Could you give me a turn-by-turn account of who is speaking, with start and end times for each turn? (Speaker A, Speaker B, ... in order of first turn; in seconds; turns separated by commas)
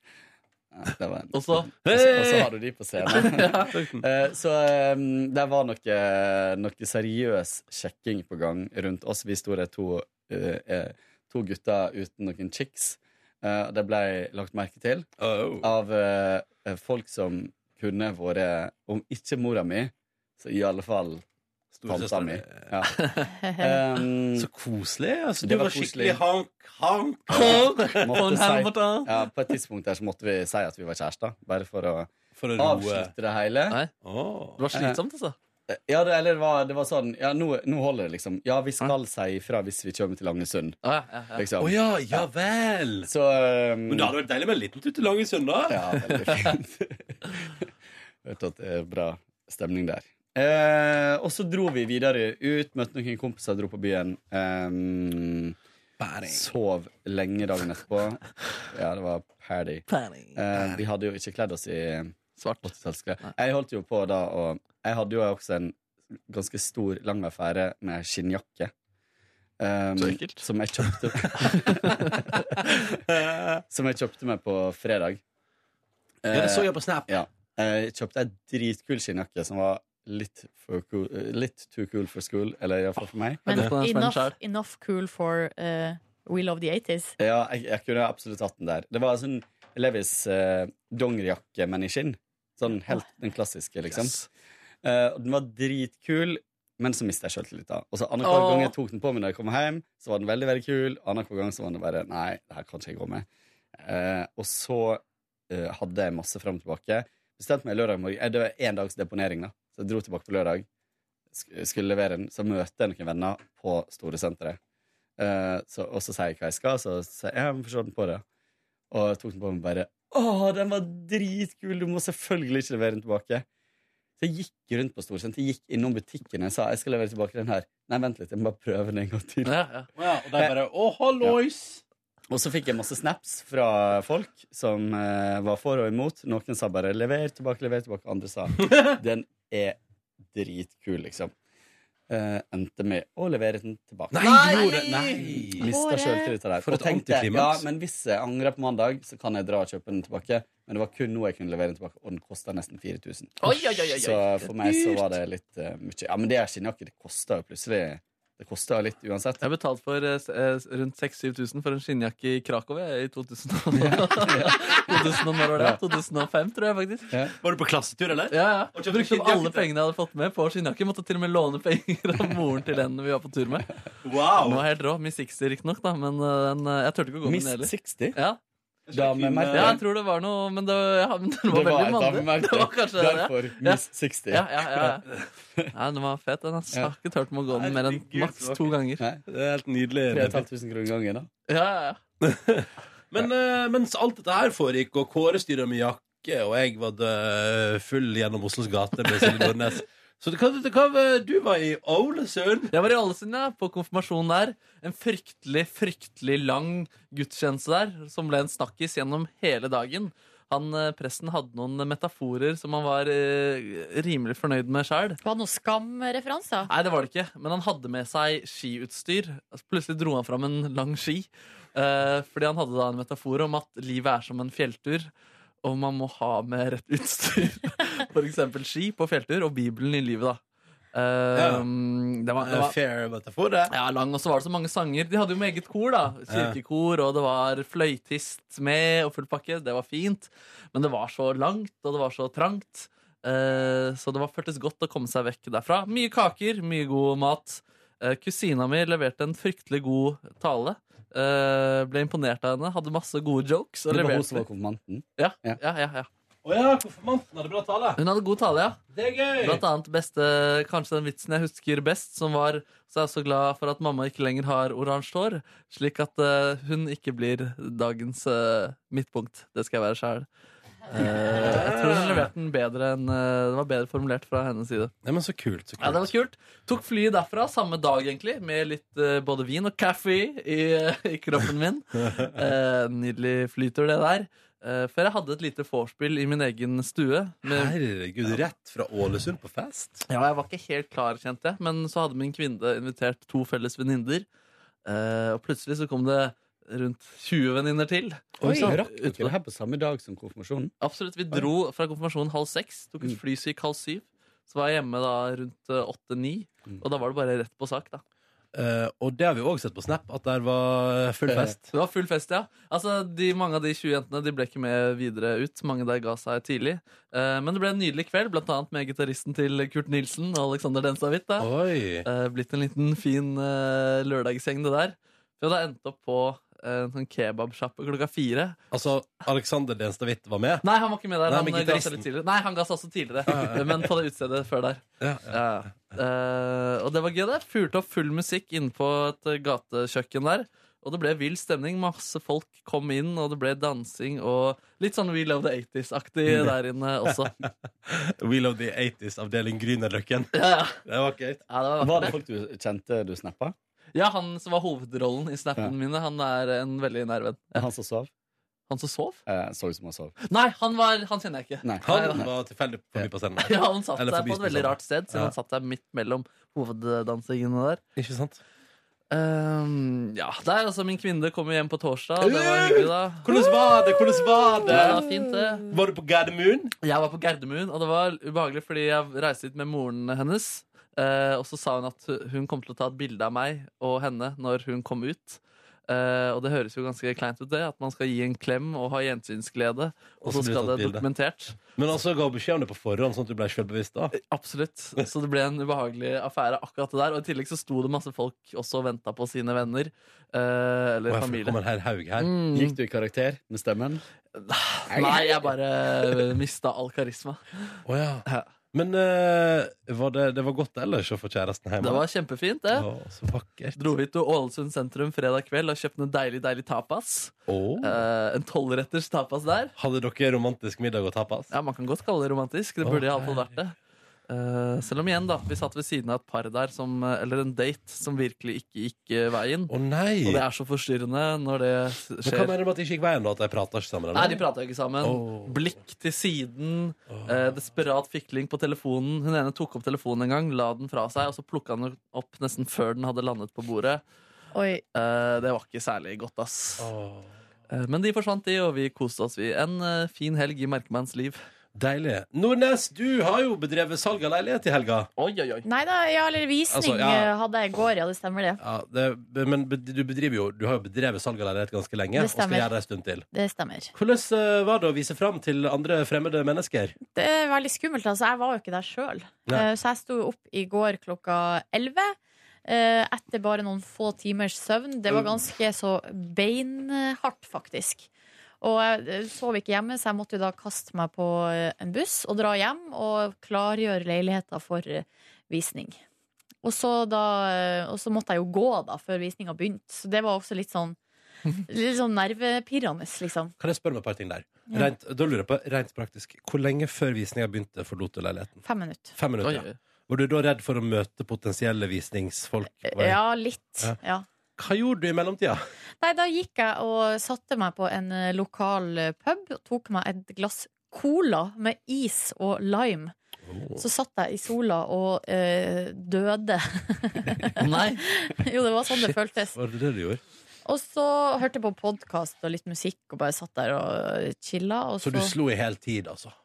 Speaker A: 0.7-15.1, Speaker B: 1.3-1.7, Speaker C: 1.8-2.5, Speaker C: 3.0-3.3, Speaker B: 3.0-3.9, Speaker C: 15.2-15.7, Speaker A: 15.6-21.2, Speaker C: 21.8-22.7, Speaker A: 21.9-22.9, Speaker B: 23.0-23.3, Speaker A: 23.5-24.5, Speaker C: 24.4-28.2, Speaker A: 25.4-26.2, Speaker B: 27.3-29.3, Speaker A: 27.3-33.8, Speaker C: 32.4-33.1, Speaker C: 34.0-34.6, Speaker B: 34.6-35.4, Speaker A: 34.7-35.0, Speaker A: 35.7-40.8, Speaker B: 40.8-41.5, Speaker A: 41.3-42.2, Speaker C: 41.6-43.1, Speaker A: 43.0-44.1, Speaker C: 43.9-46.0, Speaker A: 45.7-47.6, Speaker A: 48.2-55.6, Speaker A: 56.2-65.8, Speaker B: 59.9-60.5, Speaker B: 62.4-63.3, Speaker A: 66.3-68.7, Speaker A: 69.6-72.0, Speaker B: 70.0-70.5, Speaker B: 71.6-72.2, Speaker A: 73.7-75.2, Speaker A: 76.2-83.5, Speaker C: 76.3-77.1, Speaker D: 83.5-87.2, Speaker B: 83.5-84.3, Speaker A: 87.2-94.2, Speaker B: 93.9-94.2, Speaker A: 94.8-103.3, Speaker B: 98.2-98.8, Speaker A: 103.8-110.7, Speaker A: 111.3-114.6, Speaker A: 115.2-118.2, Speaker A: 118.9-123.5, Speaker A: 124.2-129.6, Speaker B: 129.4-129.9, Speaker C: 130.0-131.8, Speaker A: 132.3-139.8, Speaker A: 140.3-141.3, Speaker A: 142.1-159.4, Speaker C: 144.1-145.7, Speaker B: 144.2-145.1, Speaker D: 145.6-146.3, Speaker C: 146.6-147.7, Speaker B: 153.4-155.1, Speaker B: 159.4-167.1, Speaker A: 163.8-164.8, Speaker C: 167.4-169.7, Speaker B: 168.3-173.7, Speaker C: 174.0-174.6, Speaker B: 174.4-178.4, Speaker A: 177.2-178.2, Speaker C: 178.9-179.8, Speaker A: 178.9-179.8, Speaker B: 179.5-185.1, Speaker A: 181.5-185.0, Speaker B: 185.7-189.1, Speaker C: 187.5-188.8, Speaker C: 189.3-190.4, Speaker A: 190.1-191.3, Speaker B: 191.5-192.0, Speaker C: 192.2-202.7, Speaker B: 199.2-199.5, Speaker B: 202.7-215.2, Speaker D: 215.2-216.7, Speaker B: 216.7-225.1, Speaker B: 225.6-230.4, Speaker B: 230.9-232.7, Speaker C: 231.3-231.6, Speaker C: 232.4-233.7, Speaker B: 233.7-254.4, Speaker C: 236.3-236.6, Speaker A: 253.9-255.6, Speaker B: 255.2-256.1, Speaker C: 256.4-258.0, Speaker B: 258.0-258.8, Speaker C: 258.9-259.6, Speaker B: 259.4-270.3, Speaker B: 270.9-274.9, Speaker C: 271.3-272.3, Speaker C: 275.0-276.1, Speaker B: 275.8-287.8, Speaker C: 282.1-282.4, Speaker C: 287.4-290.1, Speaker B: 290.1-294.3, Speaker B: 294.9-299.4, Speaker C: 298.4-298.8, Speaker A: 298.4-300.7, Speaker B: 300.8-308.0, Speaker C: 308.5-311.6, Speaker B: 311.7-321.5, Speaker C: 321.4-322.1, Speaker B: 322.1-328.6, Speaker C: 328.7-330.6, Speaker B: 330.6-347.3, Speaker C: 331.3-332.0, Speaker C: 333.3-333.9, Speaker C: 335.0-335.3, Speaker C: 347.4-350.3, Speaker B: 350.3-350.8, Speaker C: 350.9-351.4, Speaker B: 351.5-352.2, Speaker A: 351.8-353.6, Speaker B: 353.9-357.6, Speaker A: 357.6-358.1, Speaker B: 358.7-359.2, Speaker A: 359.3-360.1, Speaker B: 360.2-362.2, Speaker A: 361.6-362.3, Speaker C: 361.8-365.3, Speaker B: 363.4-367.8, Speaker C: 368.0-368.4, Speaker B: 369.1-373.3, Speaker C: 372.2-375.0, Speaker B: 374.7-375.7, Speaker C: 375.7-376.7, Speaker B: 376.8-391.6, Speaker C: 390.2-391.1, Speaker C: 391.7-394.1, Speaker B: 394.1-401.6, Speaker C: 401.1-402.3, Speaker B: 402.2-402.8, Speaker A: 402.5-404.0, Speaker B: 404.4-408.5, Speaker A: 404.9-405.3, Speaker C: 407.9-412.0, Speaker B: 411.8-412.9, Speaker C: 412.7-413.8, Speaker B: 413.8-419.7, Speaker C: 417.5-418.1, Speaker C: 419.8-421.5, Speaker B: 421.5-423.8, Speaker C: 422.8-423.4, Speaker B: 424.3-432.5, Speaker C: 429.7-430.4, Speaker C: 432.2-434.4, Speaker B: 434.1-444.0, Speaker C: 435.0-435.6, Speaker C: 437.1-437.4, Speaker D: 444.5-444.8, Speaker B: 444.9-446.9, Speaker C: 446.8-447.3, Speaker B: 447.7-451.4, Speaker C: 451.8-455.1, Speaker B: 455.2-455.7, Speaker D: 455.6-458.6, Speaker C: 456.7-457.3, Speaker C: 458.6-463.2, Speaker D: 462.2-462.7, Speaker D: 463.3-463.9, Speaker C: 463.9-466.9, Speaker D: 467.1-472.1, Speaker D: 472.7-478.1, Speaker D: 478.6-486.0, Speaker D: 486.6-491.0, Speaker D: 491.7-493.5, Speaker C: 493.6-498.6, Speaker D: 498.6-499.2, Speaker C: 499.1-503.2, Speaker B: 499.4-499.8, Speaker D: 502.9-504.2, Speaker C: 504.6-505.6, Speaker D: 506.0-513.1, Speaker C: 513.5-513.8, Speaker D: 513.8-519.6, Speaker B: 517.6-518.0, Speaker C: 519.5-520.2, Speaker D: 520.7-525.3, Speaker C: 525.0-526.3